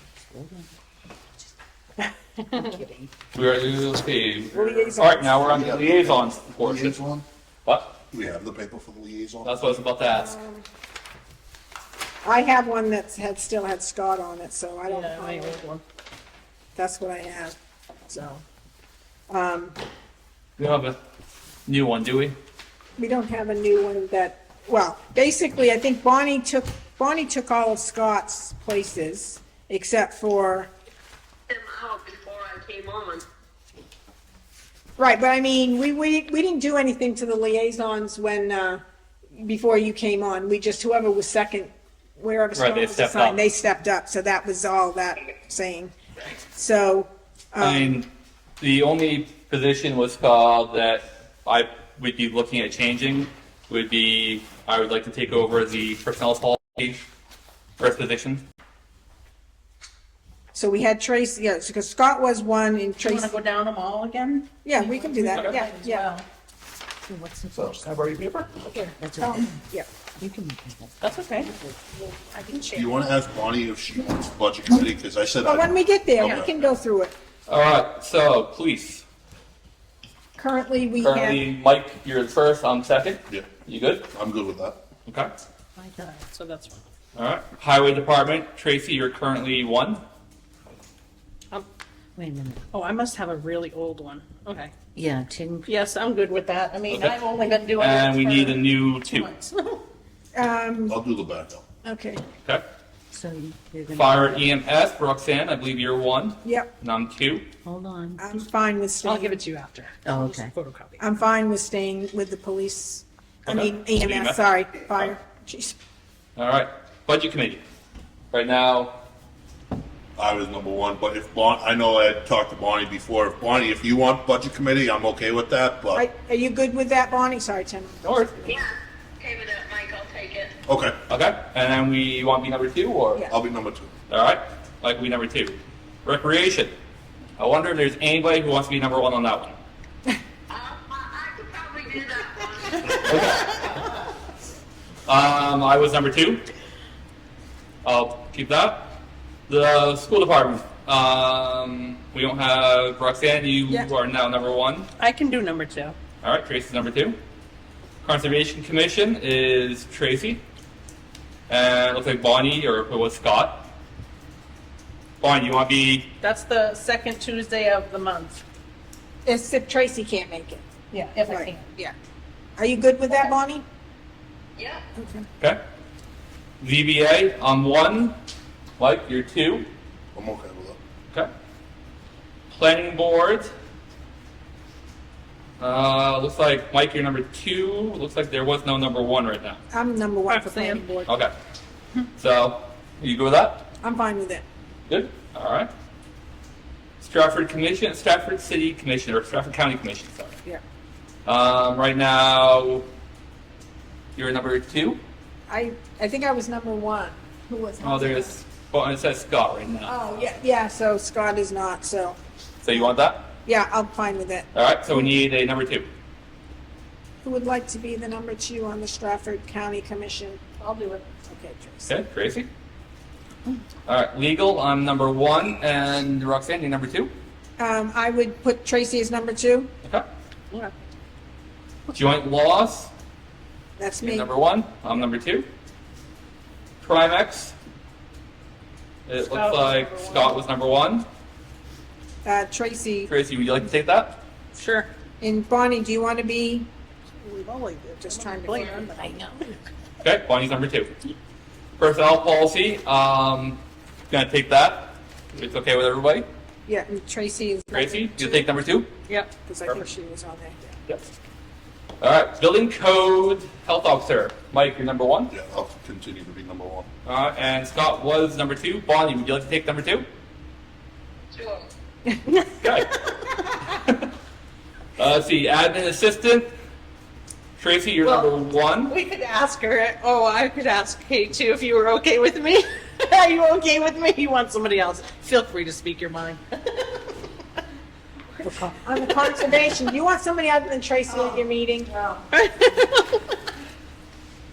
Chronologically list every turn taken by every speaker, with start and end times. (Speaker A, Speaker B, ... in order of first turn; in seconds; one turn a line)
Speaker A: 0.3-0.7
Speaker A: 2.6-3.1
Speaker B: 3.3-7.0
Speaker C: 4.5-5.4
Speaker D: 5.4-7.2
Speaker B: 7.7-8.0
Speaker D: 8.1-9.5
Speaker B: 9.4-10.3
Speaker C: 10.0-10.7
Speaker C: 12.2-15.6
Speaker E: 14.8-15.8
Speaker C: 16.8-17.5
Speaker C: 18.1-18.4
Speaker C: 19.3-19.8
Speaker B: 20.6-20.9
Speaker B: 21.7-22.3
Speaker C: 23.0-30.7
Speaker F: 31.5-33.2
Speaker C: 35.0-38.8
Speaker C: 39.3-45.9
Speaker B: 42.5-43.4
Speaker C: 46.5-48.0
Speaker B: 47.6-48.0
Speaker B: 48.6-57.0
Speaker B: 57.8-58.4
Speaker C: 60.5-63.3
Speaker E: 63.0-66.2
Speaker C: 64.6-66.0
Speaker A: 67.1-68.0
Speaker B: 67.5-68.5
Speaker A: 69.0-69.5
Speaker C: 69.2-69.9
Speaker A: 70.2-71.1
Speaker E: 71.0-71.5
Speaker E: 72.3-72.9
Speaker D: 72.7-76.5
Speaker C: 75.4-77.1
Speaker B: 77.5-79.0
Speaker C: 80.4-81.4
Speaker B: 81.0-84.0
Speaker D: 84.1-84.8
Speaker E: 85.8-86.8
Speaker B: 87.2-90.0
Speaker A: 92.2-92.6
Speaker E: 92.7-94.7
Speaker A: 94.9-95.7
Speaker E: 95.6-99.8
Speaker B: 96.9-97.2
Speaker B: 97.8-99.3
Speaker C: 100.3-101.0
Speaker D: 100.9-101.6
Speaker C: 101.8-102.2
Speaker A: 103.1-104.4
Speaker B: 103.9-107.5
Speaker C: 106.4-106.7
Speaker A: 107.6-108.2
Speaker C: 108.2-109.4
Speaker E: 109.0-111.0
Speaker A: 110.0-110.5
Speaker C: 111.0-115.7
Speaker B: 113.5-114.4
Speaker B: 116.4-117.6
Speaker B: 118.3-118.9
Speaker D: 120.2-126.0
Speaker C: 125.9-128.6
Speaker B: 128.0-128.5
Speaker F: 128.4-130.5
Speaker D: 130.7-130.9
Speaker B: 131.1-133.2
Speaker D: 133.3-133.9
Speaker B: 134.1-136.7
Speaker B: 137.4-139.6
Speaker F: 140.5-143.6
Speaker B: 143.0-143.5
Speaker B: 145.1-146.4
Speaker B: 147.8-148.9
Speaker B: 149.5-154.9
Speaker E: 155.0-155.9
Speaker B: 156.2-157.2
Speaker B: 158.0-160.4
Speaker B: 161.5-163.7
Speaker B: 165.2-166.1
Speaker E: 166.2-168.4
Speaker C: 169.2-170.6
Speaker E: 170.9-171.7
Speaker C: 171.2-171.9
Speaker C: 172.6-173.6
Speaker F: 174.6-174.8
Speaker C: 175.0-175.2
Speaker B: 176.6-178.1
Speaker B: 178.8-179.7
Speaker D: 180.1-180.8
Speaker B: 182.5-183.5
Speaker B: 185.6-189.6
Speaker C: 189.7-190.9
Speaker E: 190.3-191.1
Speaker B: 192.2-193.6
Speaker C: 193.8-194.4
Speaker B: 194.9-195.7
Speaker B: 197.0-200.3
Speaker B: 201.2-202.8
Speaker B: 204.2-205.0
Speaker C: 205.5-208.4
Speaker B: 207.8-209.9
Speaker C: 209.8-212.2
Speaker B: 212.6-213.2
Speaker C: 213.4-215.1
Speaker B: 214.5-215.9
Speaker C: 217.2-220.4
Speaker E: 220.6-221.0
Speaker C: 221.3-221.9
Speaker B: 221.9-222.5
Speaker B: 223.9-227.1
Speaker C: 227.6-229.7
Speaker B: 231.9-232.9
Speaker C: 233.8-234.3
Speaker B: 234.0-235.4
Speaker B: 236.8-237.5
Speaker B: 239.1-241.1
Speaker E: 239.2-240.4
Speaker C: 242.2-243.1
Speaker B: 243.1-244.2
Speaker E: 244.5-244.9
Speaker C: 245.2-246.7
Speaker E: 247.2-249.5
Speaker C: 248.0-249.2
Speaker B: 250.0-250.9
Speaker B: 251.8-253.6
Speaker B: 254.1-256.2
Speaker C: 256.6-258.5
Speaker B: 257.7-258.9
Speaker C: 259.4-260.8
Speaker B: 262.0-265.3
Speaker D: 265.3-266.9
Speaker B: 267.1-270.1
Speaker F: 271.3-271.6
Speaker B: 272.6-272.9
Speaker B: 273.6-274.1
Speaker B: 275.0-276.5
Speaker B: 277.6-278.9
Speaker E: 278.0-286.8
Speaker E: 288.4-289.3
Speaker C: 288.8-292.1
Speaker E: 292.3-293.2